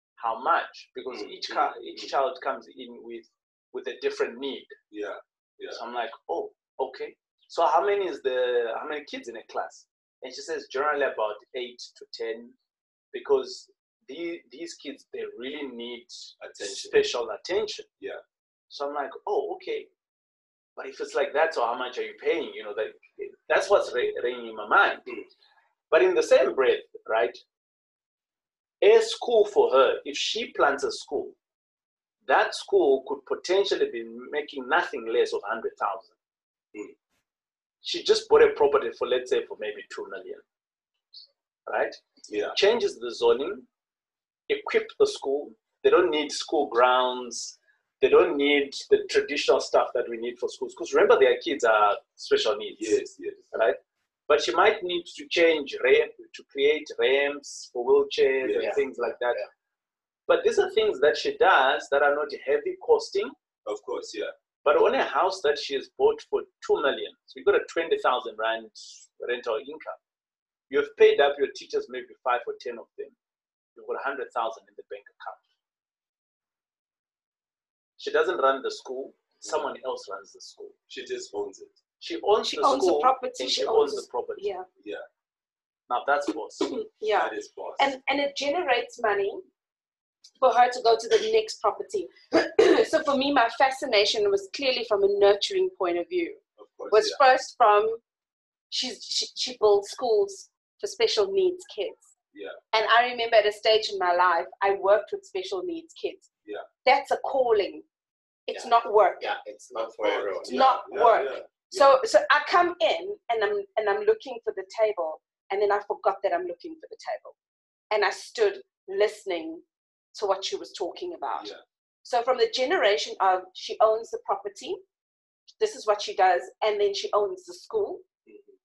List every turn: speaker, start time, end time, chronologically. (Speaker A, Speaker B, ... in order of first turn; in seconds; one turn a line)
Speaker A: 0.2-4.7
Speaker B: 1.1-2.1
Speaker B: 4.9-5.8
Speaker A: 5.7-12.5
Speaker A: 13.1-17.9
Speaker B: 16.4-17.0
Speaker A: 18.7-19.9
Speaker A: 20.8-25.1
Speaker A: 25.9-27.4
Speaker A: 28.8-31.4
Speaker A: 32.2-36.1
Speaker A: 37.8-40.4
Speaker A: 41.6-42.0
Speaker B: 42.3-42.5
Speaker A: 42.5-43.7
Speaker A: 44.5-53.0
Speaker B: 52.8-53.5
Speaker A: 53.5-59.4
Speaker B: 58.4-58.7
Speaker C: 58.5-59.5
Speaker A: 60.3-63.3
Speaker B: 63.6-64.3
Speaker A: 64.6-70.0
Speaker A: 70.7-73.2
Speaker A: 73.7-75.5
Speaker A: 78.0-80.7
Speaker B: 80.9-81.8
Speaker A: 82.0-84.5
Speaker D: 82.5-84.7
Speaker B: 84.8-85.0
Speaker A: 85.9-86.9
Speaker D: 86.7-89.5
Speaker B: 87.1-87.9
Speaker D: 90.4-98.0
Speaker B: 96.6-97.2
Speaker D: 98.7-102.1
Speaker B: 102.3-102.6
Speaker D: 102.7-106.2
Speaker D: 106.8-107.8
Speaker D: 108.5-109.2
Speaker C: 108.5-110.7
Speaker B: 109.8-112.0
Speaker D: 110.5-117.3
Speaker D: 117.9-119.6
Speaker D: 120.1-121.5
Speaker B: 121.3-121.6
Speaker D: 122.0-124.8
Speaker D: 125.6-128.0
Speaker B: 128.2-128.5